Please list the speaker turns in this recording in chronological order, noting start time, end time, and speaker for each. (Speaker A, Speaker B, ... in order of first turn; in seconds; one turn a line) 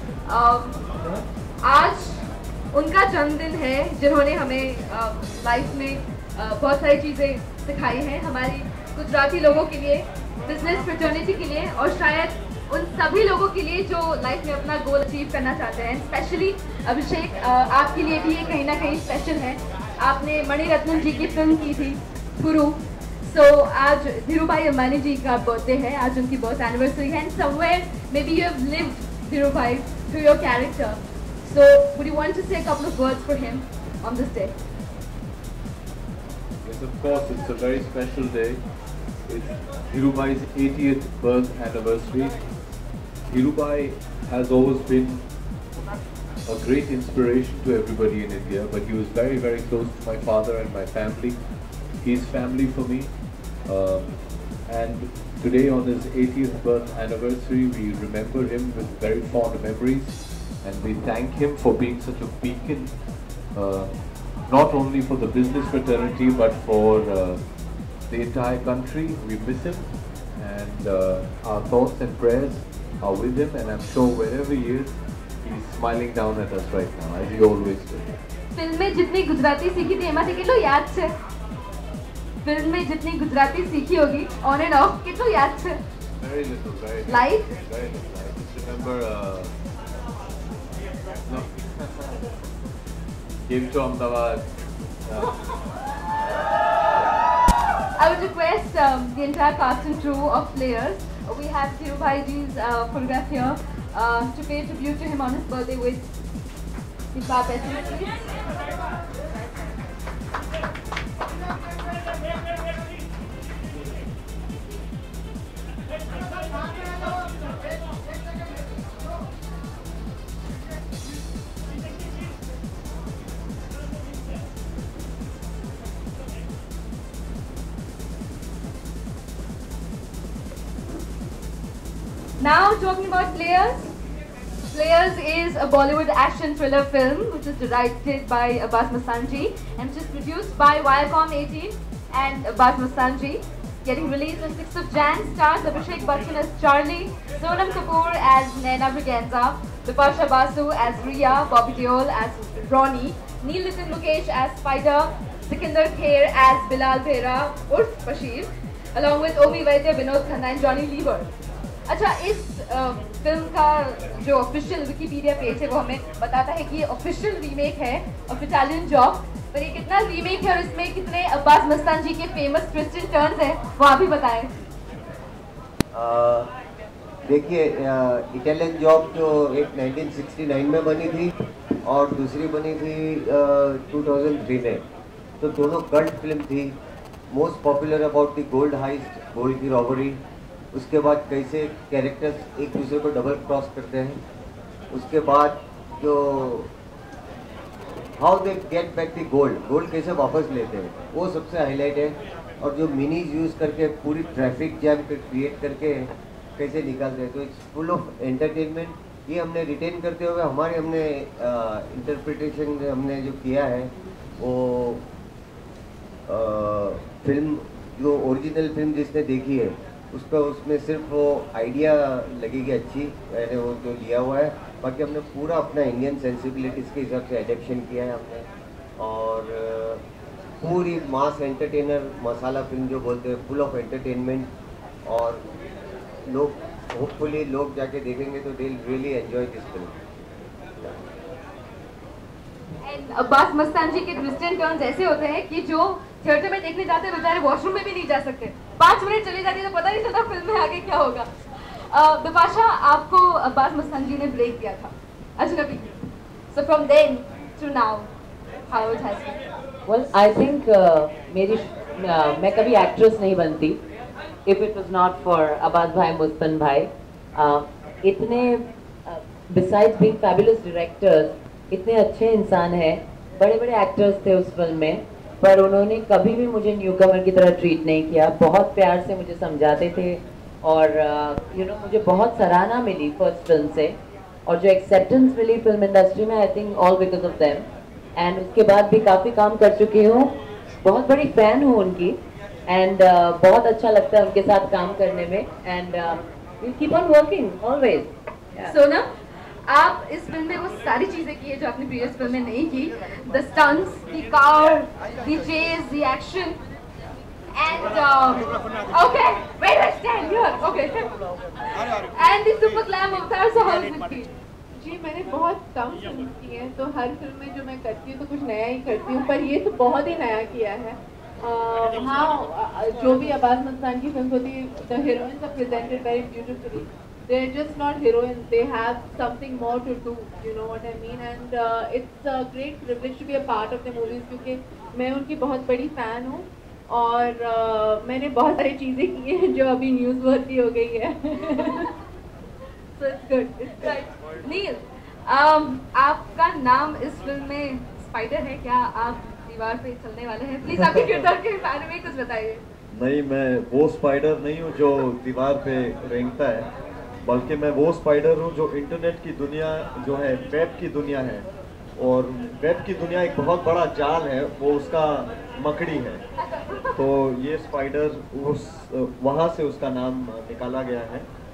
Speaker A: 0.2-0.8
Speaker A: 1.6-34.5
Speaker B: 36.6-38.6
Speaker B: 39.2-42.3
Speaker B: 43.2-45.3
Speaker B: 46.5-51.4
Speaker B: 52.0-53.1
Speaker B: 53.6-62.9
Speaker B: 63.5-67.4
Speaker B: 68.1-78.1
Speaker A: 78.5-81.1
Speaker A: 82.4-85.8
Speaker B: 86.2-89.5
Speaker A: 87.1-87.5
Speaker B: 91.2-92.0
Speaker B: 93.4-94.5
Speaker B: 95.0-95.3
Speaker A: 98.0-106.0
Speaker A: 107.1-108.2
Speaker A: 132.4-133.9
Speaker A: 134.7-161.3
Speaker A: 161.9-174.5
Speaker C: 175.9-176.5
Speaker C: 177.2-181.3
Speaker C: 181.8-184.8
Speaker C: 185.4-186.8
Speaker C: 187.3-190.2
Speaker C: 190.7-194.2
Speaker C: 194.9-196.7
Speaker C: 198.2-206.1
Speaker C: 206.6-215.1
Speaker C: 216.3-230.0
Speaker C: 230.6-234.5
Speaker C: 235.1-235.4
Speaker C: 236.2-239.9
Speaker A: 242.8-255.9
Speaker A: 256.5-258.1
Speaker A: 258.7-259.4
Speaker D: 259.9-263.8
Speaker D: 264.4-298.7
Speaker A: 298.6-299.1
Speaker A: 299.6-306.6
Speaker A: 307.5-311.1
Speaker A: 311.7-314.3
Speaker E: 314.8-341.8
Speaker A: 341.5-341.9
Speaker E: 343.0-343.6
Speaker A: 343.7-352.6
Speaker F: 350.8-351.3
Speaker F: 352.9-356.7
Speaker F: 357.2-366.2
Speaker A: 366.5-367.0
Speaker F: 366.9-371.3